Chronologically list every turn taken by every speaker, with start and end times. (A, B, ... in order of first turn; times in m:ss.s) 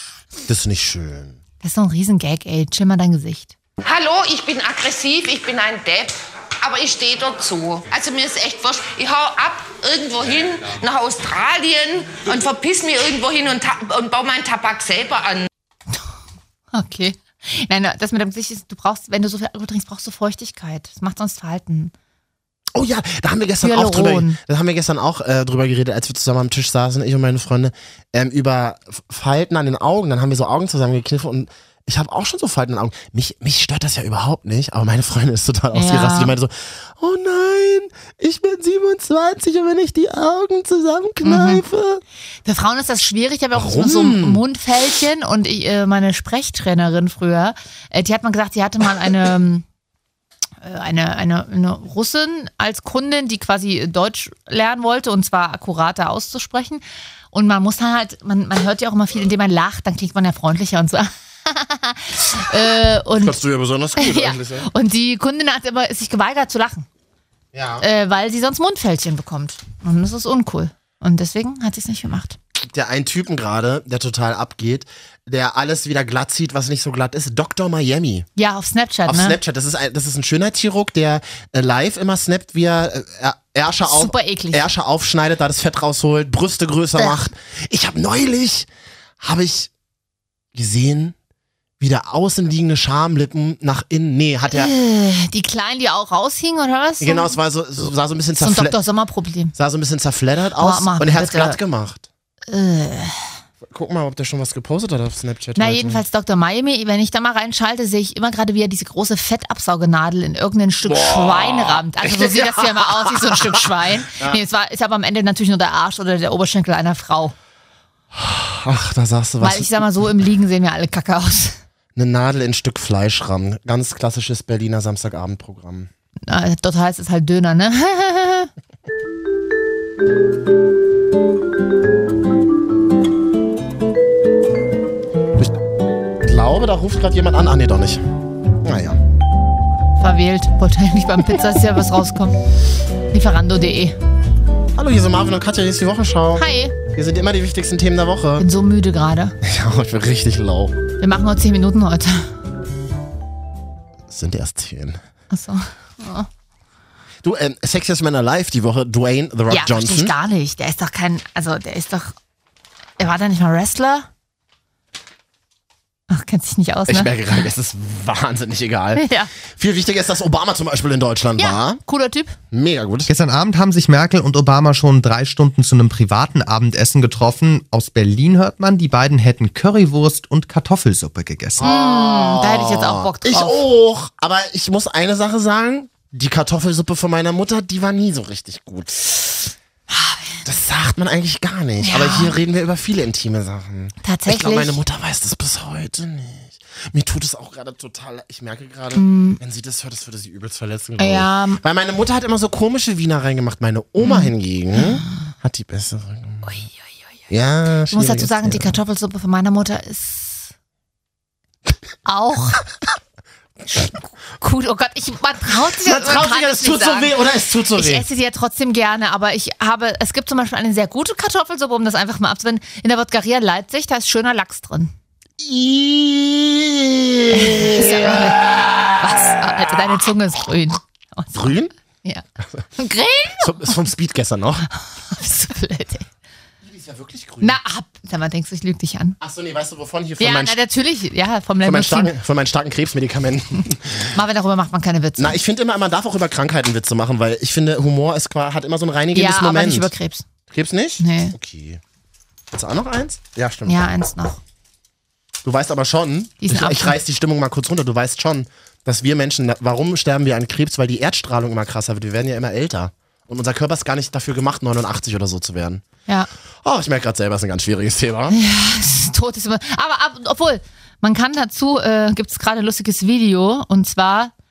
0:00.5-0:01.4 A
0:01.6-0:03.5 B
0:03.8-0:15.5 C
0:16.7-0:21.9 B
0:22.7-0:42.0 A
0:23.6-0:24.4 B
0:35.7-0:36.3 B
0:41.2-0:41.6 B
0:42.4-0:49.6 B
0:43.5-0:44.4 A
0:50.6-1:03.4 B
1:03.2-1:04.7 A
1:04.0-1:06.9 B
1:07.5-1:07.8 A
1:07.8-1:12.4 B
1:12.6-1:18.3 A
1:18.4-1:19.4 B
1:19.1-1:28.7 A
1:23.9-1:24.7 B
1:29.2-1:29.7 A
1:30.5-1:31.2 A
1:31.8-1:34.7 A
1:34.5-1:37.4 B
1:37.0-1:38.8 A
1:38.4-1:39.5 B
1:39.6-1:42.1 A
1:40.6-1:41.6 B
1:42.5-1:43.3 B
1:43.6-1:46.0 A
1:45.6-1:57.3 B
1:50.8-1:53.6 A
1:54.2-1:54.4 A
1:58.1-1:59.9 A
1:59.4-2:01.6 B
2:02.0-2:05.9 A
2:06.3-2:08.5 B
2:16.2-2:18.0 A
2:18.6-2:19.0 A
2:20.0-2:22.4 B
2:23.1-2:24.0 B
2:24.8-2:28.5 A
2:26.4-2:26.8 B
2:28.4-2:29.4 B
2:29.4-2:30.8 A
2:31.0-2:32.3 B
2:34.1-2:35.0 A
2:35.3-2:36.3 B
2:37.2-2:40.1 A
2:39.5-2:42.2 B
2:43.0-2:44.1 B
2:46.1-2:47.4 B
2:46.9-2:51.8 A
2:49.0-2:49.3 B
2:51.4-2:52.4 B
2:52.5-2:53.1 A
2:53.1-3:01.6 D
3:01.6-3:09.1 A
3:01.6-3:03.6 B
3:09.9-3:10.4 B
3:10.4-3:26.5 A
3:11.8-3:12.4 B
3:14.0-3:14.8 B
3:19.0-3:19.4 B
3:21.0-3:21.6 B
3:24.0-3:25.0 B
3:26.4-3:26.7 B
3:27.3-3:28.7 A
3:27.9-3:30.5 B
3:32.0-3:32.6 B
3:34.4-3:37.2 B
3:35.7-3:38.1 A
3:37.8-3:44.9 B
3:45.4-3:49.1 A
3:47.3-3:51.5 B
3:51.3-3:51.7 A
3:52.8-3:53.7 B
3:53.4-3:54.7 A
3:55.1-3:56.1 B
3:56.6-3:57.6 A
3:57.4-3:59.2 B
3:59.2-4:00.6 A
4:00.2-4:02.1 B
4:01.6-4:04.2 A
4:04.1-4:05.4 B
4:05.2-4:09.9 A
4:09.1-4:10.3 B
4:10.5-4:11.8 A
4:11.0-4:11.4 B
4:12.5-4:13.9 A
4:13.7-4:14.4 B
4:15.4-4:25.8 A
4:16.4-4:17.0 B
4:26.6-4:28.4 A
4:28.3-4:34.3 B